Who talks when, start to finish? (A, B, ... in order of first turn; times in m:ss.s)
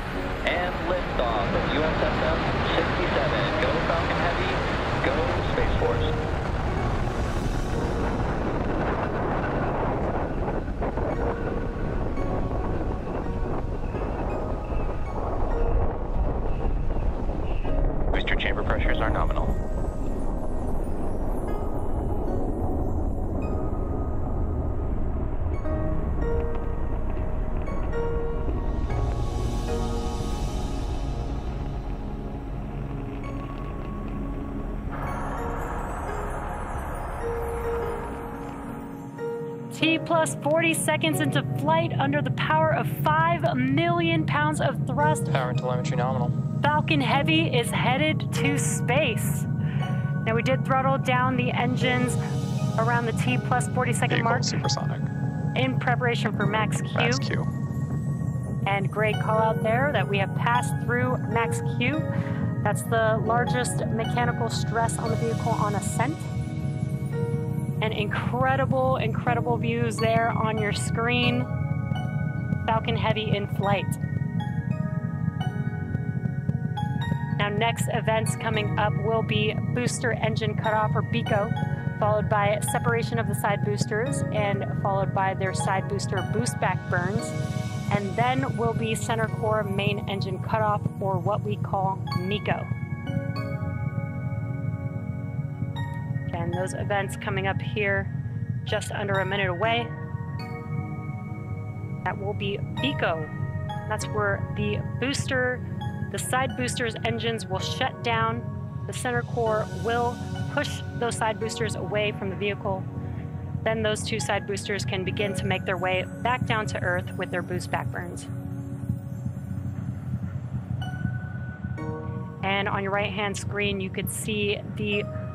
0:00.4-0:06.1 A
0:18.1-0:19.5 A
0:39.7-0:45.4 B
0:45.3-0:46.3 C
0:46.6-0:49.5 B
0:50.2-0:52.2 B
0:52.8-0:54.6 B
0:54.1-0:55.1 C
0:55.5-0:57.3 B
0:57.0-0:57.5 C
0:58.6-1:02.1 B
1:02.6-1:06.3 B
1:07.8-1:11.5 B
1:12.6-1:14.0 B
1:17.4-1:27.3 B
1:27.9-1:32.7 B
1:36.3-1:38.1 B
1:38.6-1:39.9 B
1:42.0-1:43.3 B
1:43.9-1:52.9 B
1:53.6-1:58.3 B
2:02.4-2:05.0 B